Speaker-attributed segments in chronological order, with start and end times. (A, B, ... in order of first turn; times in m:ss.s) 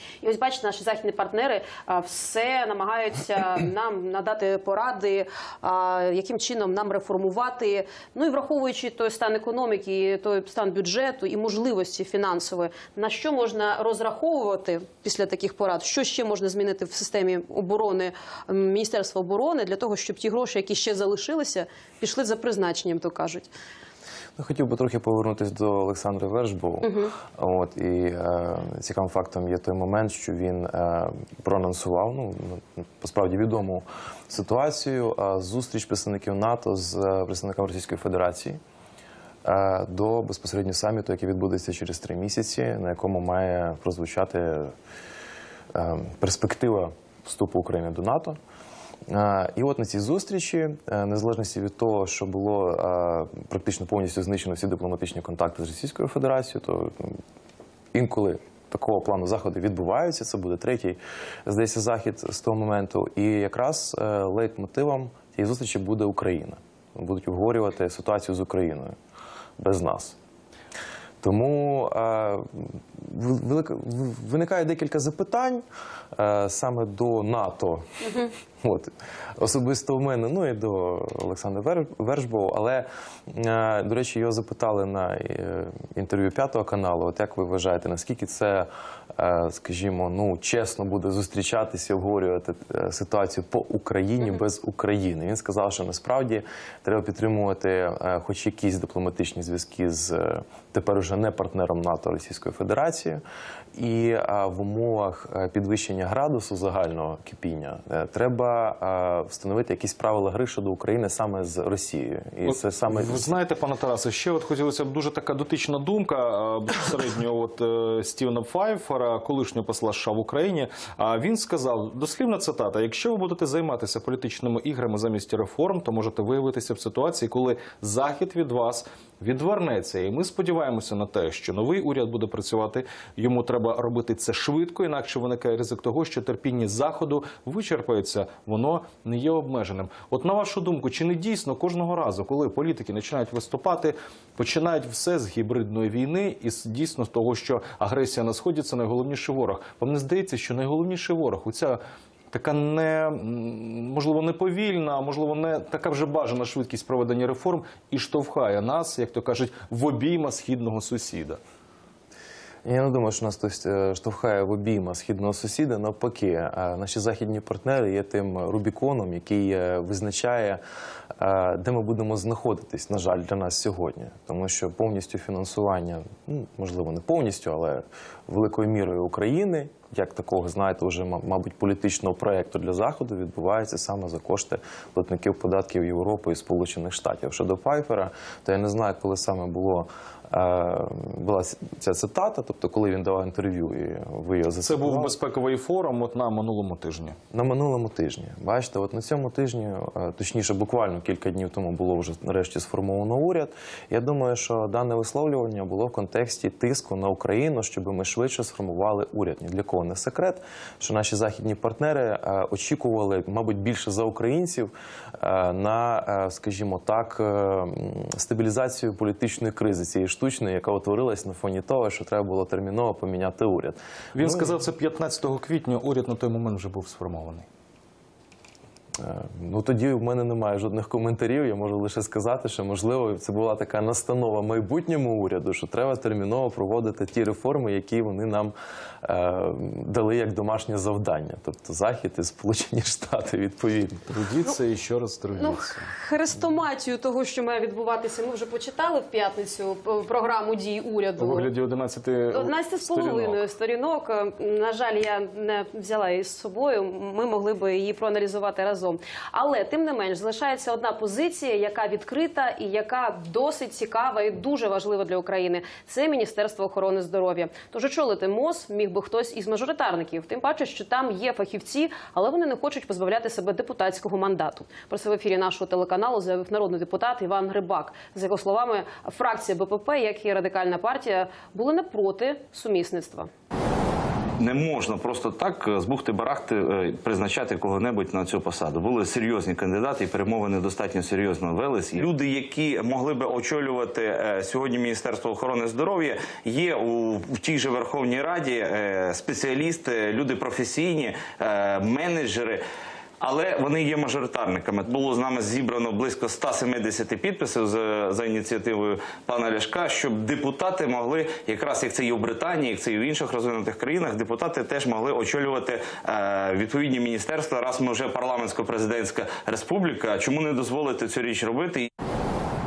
0:00.2-0:23.5 A
0:24.4-0:38.6 B
0:26.8-0:27.1 A
0:39.4-0:44.7 B
0:45.7-0:48.4 B
0:49.1-0:57.2 B
0:57.9-1:09.0 B
1:09.6-1:10.2 B
1:11.2-1:17.8 B
1:18.6-1:43.2 B
1:43.8-1:53.2 B
1:52.5-2:31.8 C
2:32.3-2:41.4 C
2:42.6-2:50.6 B
2:51.2-3:15.2 B
3:14.6-3:17.2 C
3:17.3-3:44.5 B
3:44.2-3:47.5 C
3:49.0-4:04.1 B
4:04.1-4:05.9 C
4:05.4-4:11.5 A
4:11.2-4:13.4 C
4:12.3-4:43.3 A
4:44.4-5:02.6 D
5:03.2-5:21.9 D